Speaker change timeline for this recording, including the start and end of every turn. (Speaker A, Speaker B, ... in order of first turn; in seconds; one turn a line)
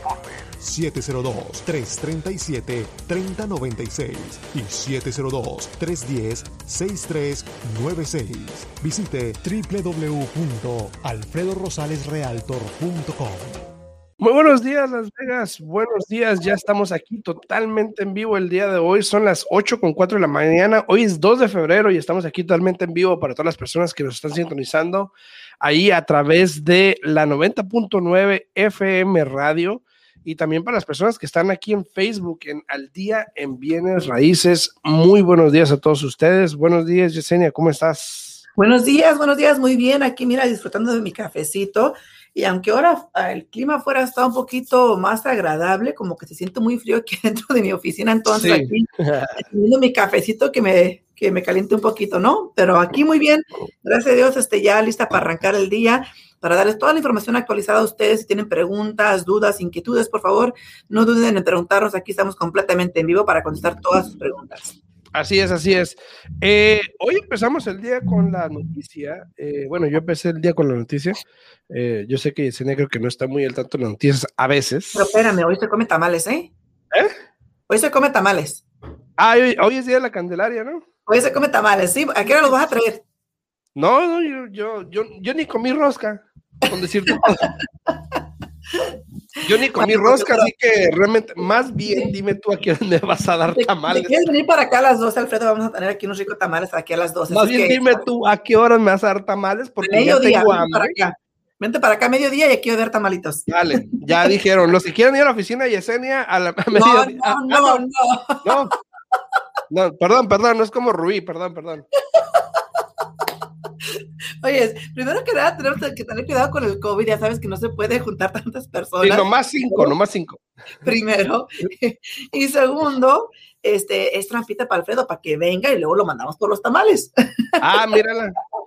Speaker A: 0.5-13.6
Speaker B: 14.2-38.4
Speaker C: 38.6-64.8
Speaker B: 48.4-49.4
Speaker B: 65.1-75.1
Speaker C: 74.9-76.5
Speaker C: 77.7-78.6
Speaker B: 79.2-80.8
Speaker C: 81.0-83.0
Speaker B: 83.7-87.5
Speaker B: 89.4-94.2
Speaker C: 89.7-90.5
Speaker C: 93.5-98.0
Speaker B: 97.3-101.0
Speaker C: 99.8-103.5
Speaker B: 103.5-107.8
Speaker C: 106.7-108.5
Speaker B: 108.4-108.7
Speaker B: 109.7-111.9
Speaker C: 114.4-119.9
Speaker B: 119.0-120.4
Speaker C: 120.8-127.6
Speaker B: 127.6-128.3